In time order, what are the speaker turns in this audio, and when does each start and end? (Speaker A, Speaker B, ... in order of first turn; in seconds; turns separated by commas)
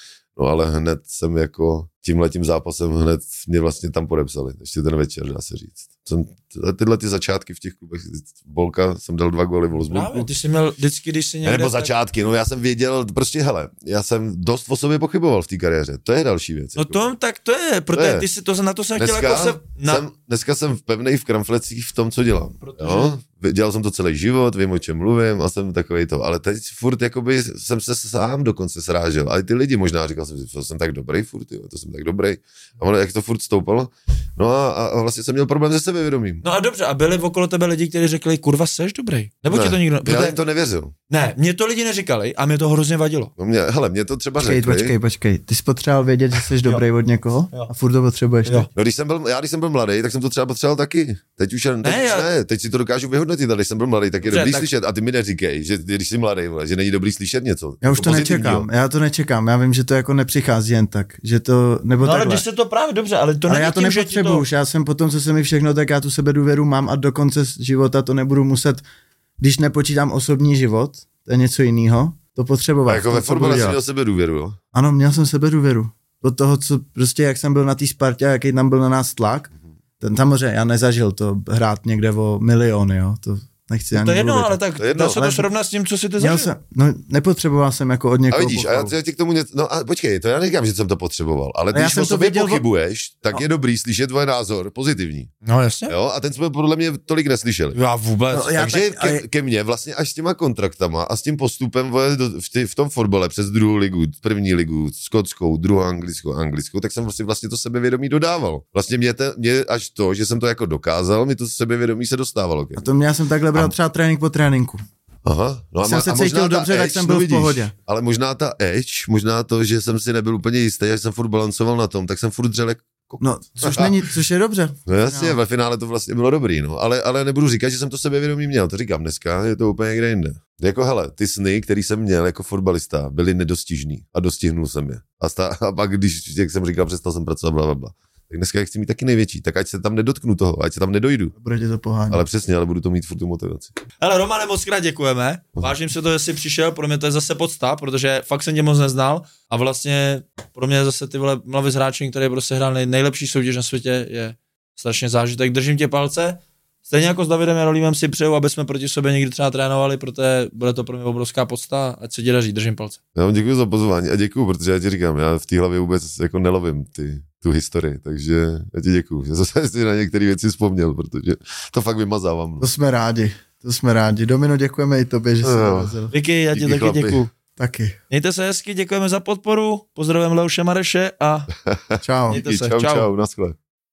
Speaker A: 0.3-10.3, Speaker B: 9.8-11.9, Speaker A: 11.4-17.1, Speaker B: 16.8-20.0, Speaker A: 17.9-18.3, Speaker A: 18.9-36.4, Speaker B: 22.6-23.1, Speaker B: 36.4-40.4, Speaker A: 39.5-40.9, Speaker B: 41.1-43.3, Speaker A: 43.4-44.9, Speaker C: 44.4-48.7, Speaker A: 48.7-58.7, Speaker B: 51.8-52.3, Speaker B: 54.2-54.7, Speaker C: 57.8-62.4, Speaker B: 62.0-64.4, Speaker C: 63.5-68.8, Speaker C: 69.4-73.8, Speaker A: 72.9-74.6, Speaker C: 74.7-84.6, Speaker B: 83.9-86.5, Speaker A: 84.8-85.4, Speaker C: 86.2-88.9, Speaker A: 88.3-95.3, Speaker C: 91.7-92.6, Speaker B: 95.4-95.9, Speaker A: 95.9-97.8, Speaker B: 97.7-98.7, Speaker C: 98.3-99.2, Speaker A: 98.5-112.9, Speaker C: 112.8-114.8, Speaker A: 115.2-124.0, Speaker C: 115.8-117.7, Speaker C: 123.2-125.4, Speaker A: 124.9-141.3, Speaker C: 141.3-142.2, Speaker A: 142.1-143.7, Speaker B: 144.0-163.0, Speaker A: 163.1-172.7, Speaker C: 172.6-176.1, Speaker A: 175.4-176.0, Speaker B: 176.1-177.3, Speaker A: 176.5-177.2, Speaker C: 177.6-178.0, Speaker B: 178.1-181.5, Speaker A: 181.6-183.6, Speaker C: 182.0-182.4, Speaker B: 182.3-183.1